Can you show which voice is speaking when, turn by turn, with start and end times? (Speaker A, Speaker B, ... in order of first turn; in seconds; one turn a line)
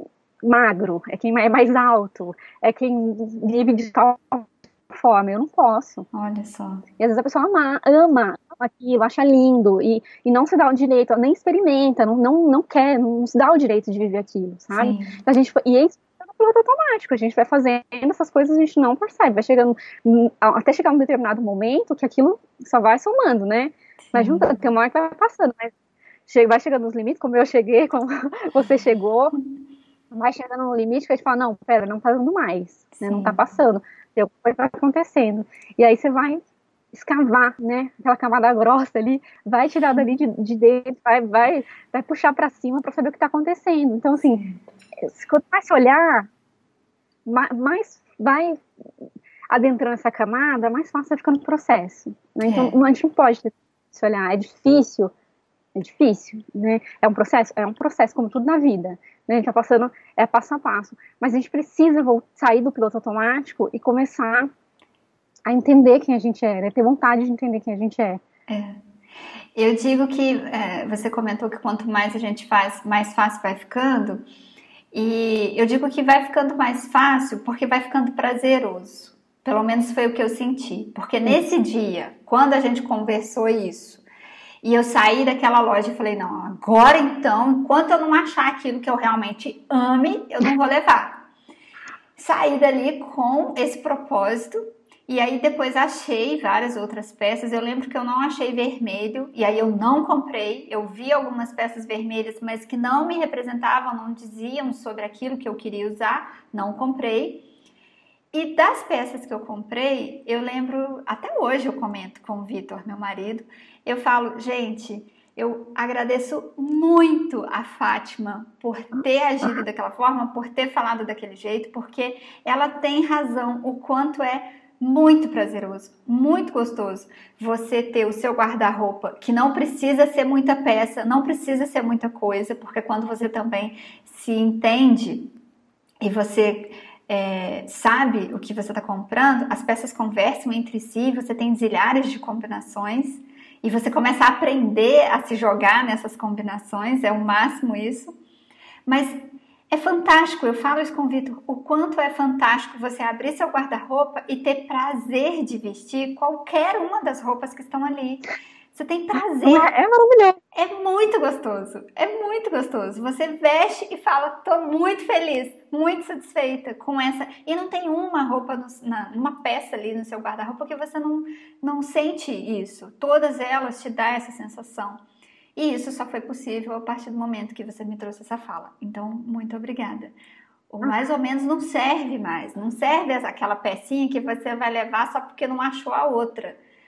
Speaker A: 0.4-6.0
Speaker B: 6.1-6.8
Speaker A: 7.0-25.7
Speaker B: 14.7-15.2
Speaker B: 24.0-24.6
Speaker A: 26.3-29.3
Speaker A: 30.1-36.4
Speaker B: 32.9-33.4
Speaker A: 36.9-44.4
Speaker B: 44.2-44.6
Speaker A: 45.0-46.3
Speaker A: 47.2-48.6
Speaker A: 49.5-55.1
Speaker B: 52.4-52.8
Speaker A: 55.7-64.5
Speaker A: 65.5-68.2
Speaker B: 68.5-68.8
Speaker B: 69.5-74.2
Speaker B: 74.9-84.0
Speaker A: 81.2-81.5
Speaker B: 84.6-91.2
Speaker B: 92.2-107.5
Speaker B: 108.3-135.3
Speaker B: 136.0-148.1
Speaker B: 148.9-159.7
Speaker A: 159.4-160.4
Speaker B: 160.5-175.0
Speaker B: 175.6-180.1
Speaker B: 180.7-186.6